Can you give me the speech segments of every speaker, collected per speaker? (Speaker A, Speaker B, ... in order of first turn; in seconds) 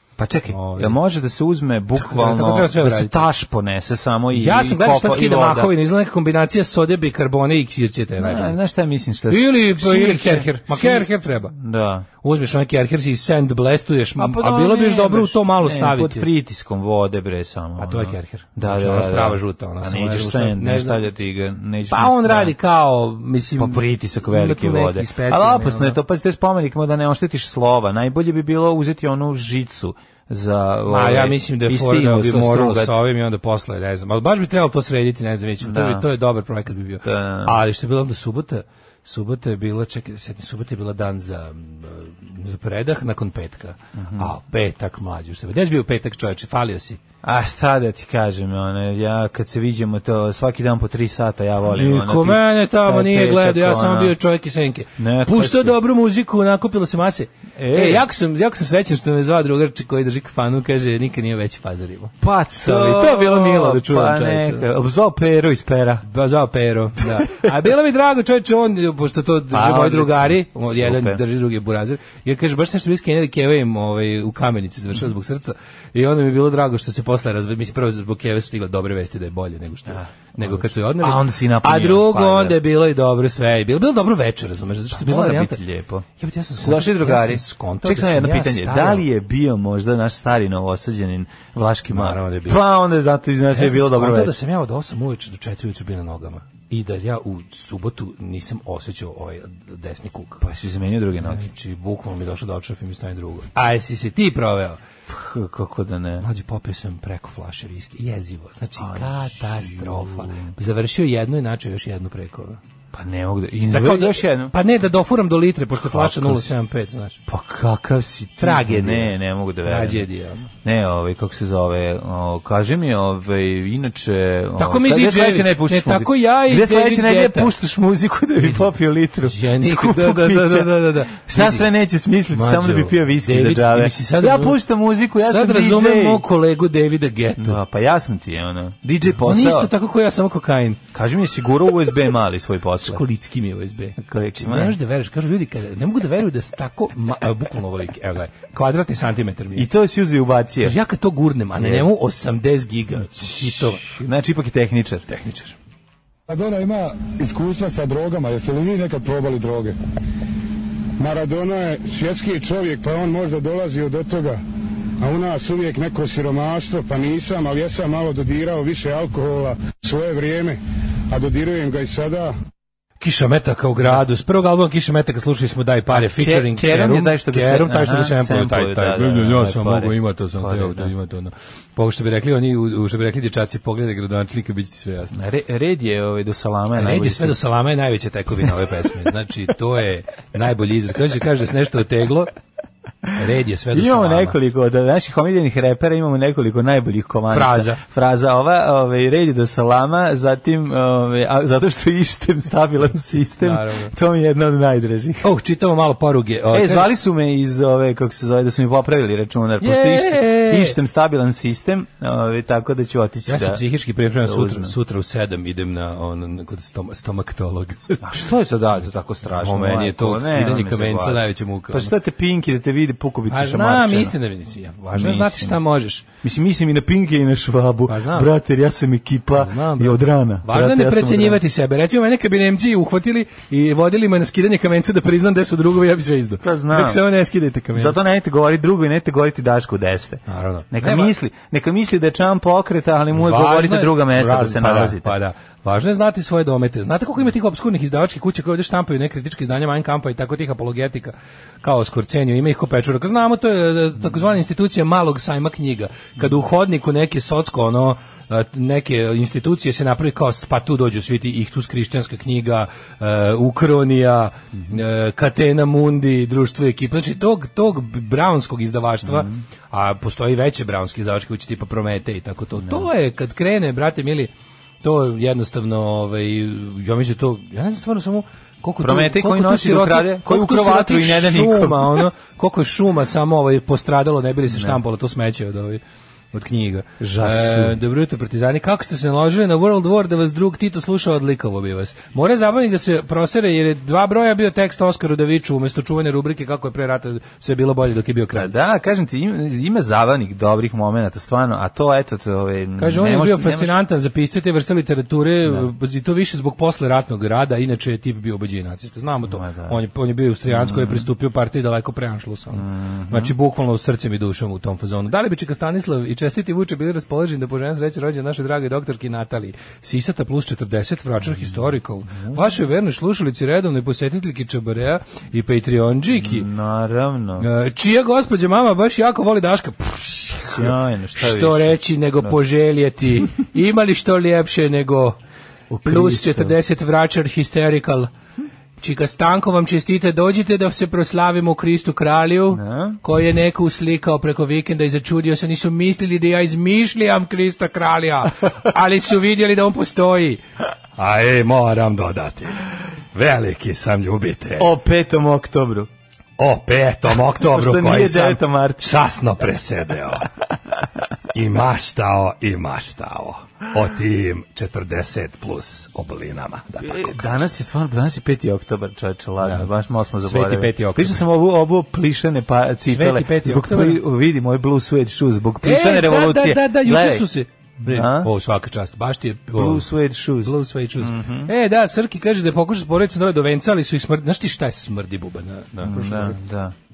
Speaker A: 0.2-5.7, 8.2-12.1, 14.2-22.6, 23.6-33.0, 35.6-36.0, 37.0-37.6, 44.0-44.3, 47.2-54.1, 55.0-55.8, 57.5-58.0, 62.2-66.0, 67.0-67.5, 69.5-71.2, 79.9-82.6, 84.9-94.3, 100.4-101.4, 105.1-106.2, 108.8-110.5, 112.9-114.5, 115.8-116.5, 117.3-120.0, 120.6-136.2, 137.4-139.7, 140.9-143.0, 144.0-144.8, 149.6-150.7, 151.6-151.9, 153.1-155.1, 175.9-180.9, 185.1-187.4, 193.7-205.3, 206.5-213.6, 214.2-214.7, 218.0-224.1, 224.9-225.6, 226.2-231.4, 236.4-237.0, 237.7-245.1, 269.0-269.4, 272.6-272.9, 278.8-282.1, 284.5-284.8, 287.0-287.8, 298.3-303.7, 309.3-309.8, 310.4-311.1, 312.5-313.3, 322.1-322.4, 326.1-327.5, 330.4-332.4, 335.7-336.6, 342.5-343.0, 354.6-355.9, 357.3-359.0, 366.8-377.3, 377.8-378.3, 379.5-381.5, 385.8-386.7
Speaker B: 0.5-1.0, 1.9-3.3, 4.3-8.6, 9.3-11.5, 12.2-16.3, 17.8-21.1, 21.9-26.0, 30.9-47.0, 51.8-64.6, 66.0-85.6, 86.2-89.0, 91.9-92.6, 93.5-100.4, 101.2-104.8, 106.2-112.6, 113.7-117.2, 118.4-120.4, 124.6-127.5, 128.4-128.7, 129.2-131.7, 132.3-134.6, 135.2-137.6, 139.2-140.8, 142.8-149.7, 150.6-153.9, 155.1-155.5, 173.0-185.2, 186.8-192.3, 193.1-194.3, 197.3-197.8, 203.4-203.9, 205.2-206.9, 209.6-210.8, 213.3-218.0, 219.3-221.9, 223.3-226.0, 227.9-228.3, 229.3-237.9, 240.3-241.1, 243.1-274.3, 274.8-285.8, 286.3-298.5, 302.8-326.5, 327.4-335.2, 335.8-338.1, 338.8-350.4, 351.0-354.7, 356.4-360.3, 361.3-367.2, 369.4-369.7, 370.2-371.2, 372.9-374.0, 375.6-379.9, 380.4-386.4
Speaker C: 156.3-159.8, 161.0-164.4, 165.0-170.6, 171.1-172.3